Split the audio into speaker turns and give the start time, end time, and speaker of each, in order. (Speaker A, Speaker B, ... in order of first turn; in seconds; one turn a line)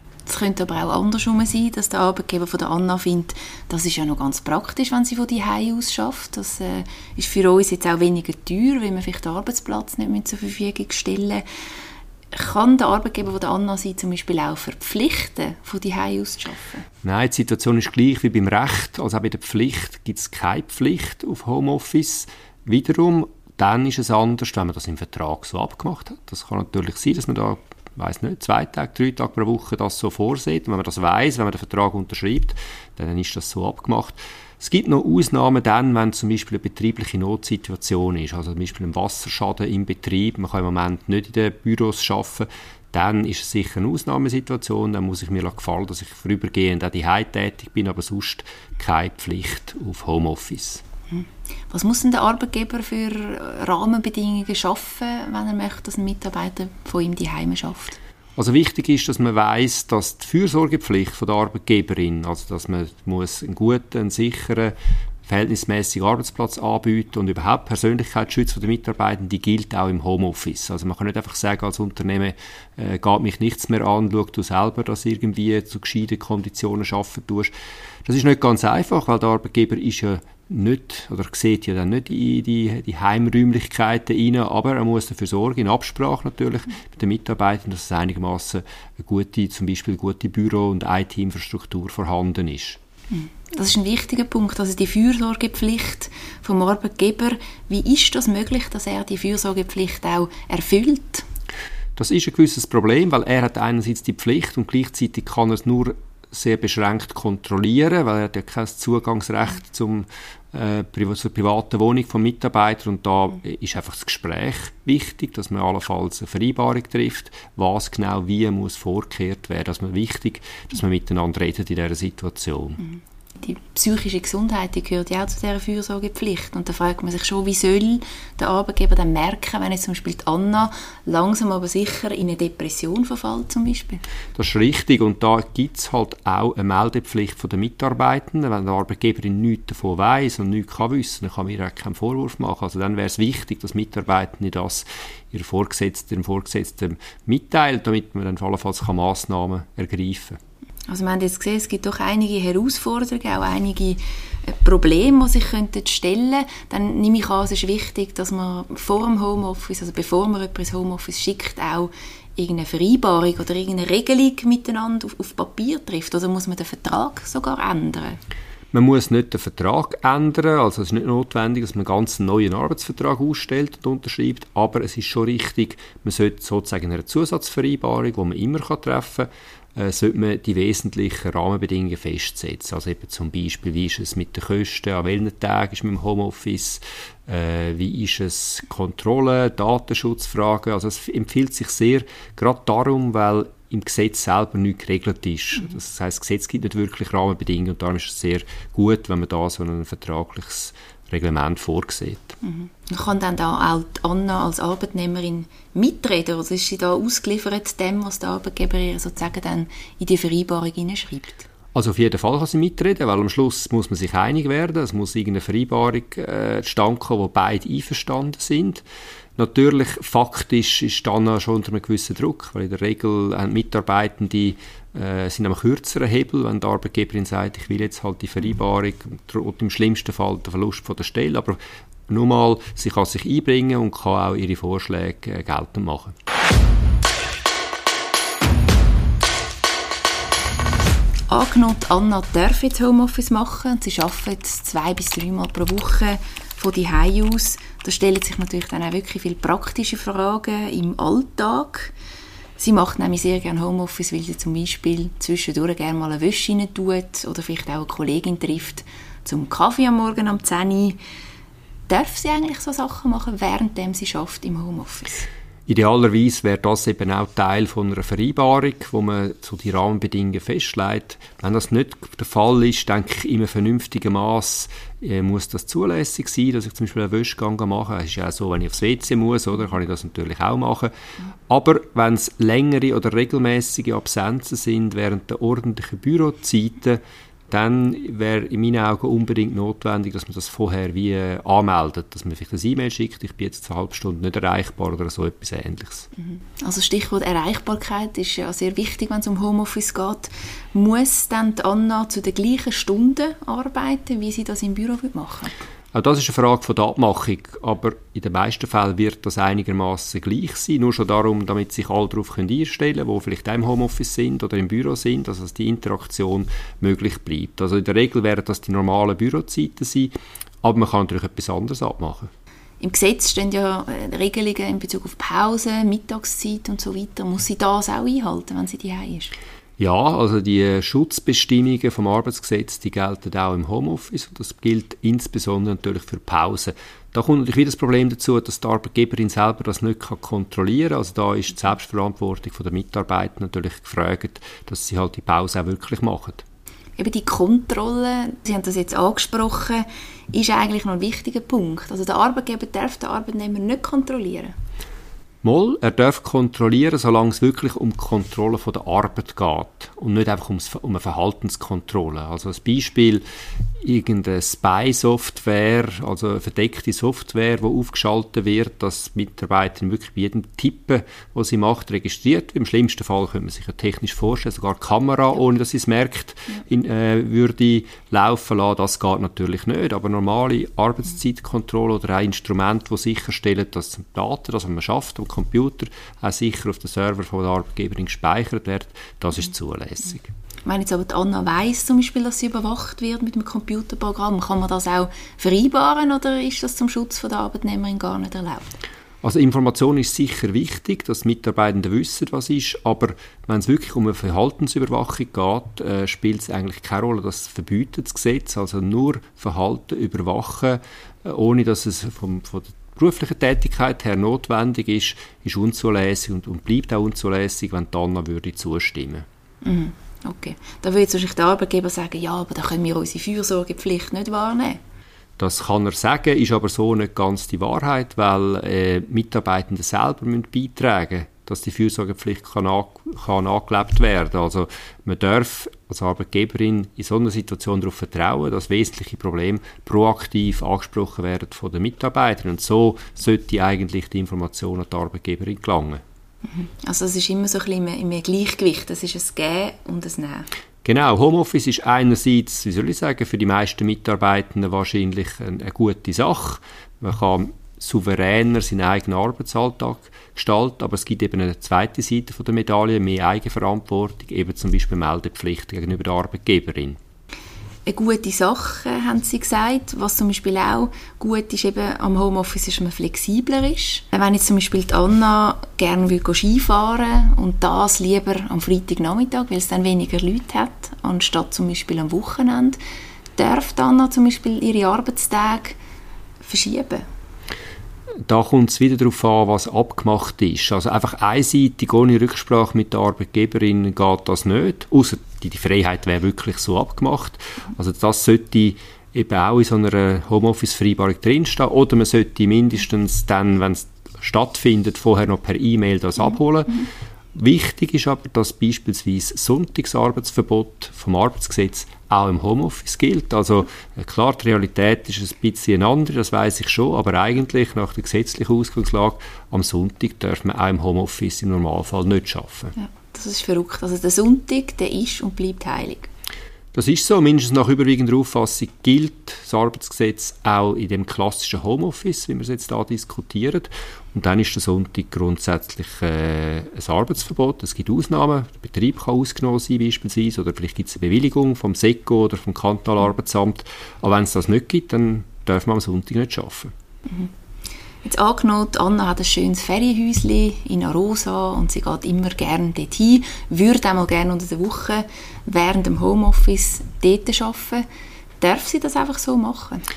Speaker A: 0.2-11.4
Speaker A: 12.3-16.8
Speaker B: 17.0-50.8
Speaker A: 51.1-58.0
Speaker B: 58.4-64.7
Speaker B: 65.2-77.5
Speaker B: 78.0-92.8
Speaker A: 93.1-101.2
Speaker B: 102.0-122.8
Speaker A: 123.4-134.0
Speaker B: 134.3-150.4
Speaker A: 150.9-168.2
Speaker B: 168.7-202.3
Speaker A: 202.4-211.5
Speaker B: 211.7-218.8
Speaker B: 219.4-236.2
Speaker A: 241.3-251.9
Speaker A: 252.6-261.0
Speaker A: 261.9-265.3
Speaker B: 265.7-280.9
Speaker B: 281.5-296.1
Speaker A: 296.3-305.5
Speaker B: 305.9-320.1
Speaker B: 320.6-322.3
Speaker A: 322.8-329.3
Speaker B: 329.8-346.4
Speaker A: 347.0-354.5
Speaker B: 355.4-363.2
Speaker B: 363.8-390.3
Speaker A: 390.6-398.8
Speaker B: 399.2-419.2
Speaker A: 419.6-424.8
Speaker B: 425.4-446.0
Speaker A: 446.5-450.5
Speaker B: 450.8-467.0
Speaker A: 467.9-482.8
Speaker A: 483.4-485.8
Speaker A: 486.4-487.1
Speaker B: 488.2-522.7
Speaker A: 522.8-526.1
Speaker B: 526.7-546.7
Speaker A: 548.0-557.9
Speaker A: 558.4-559.9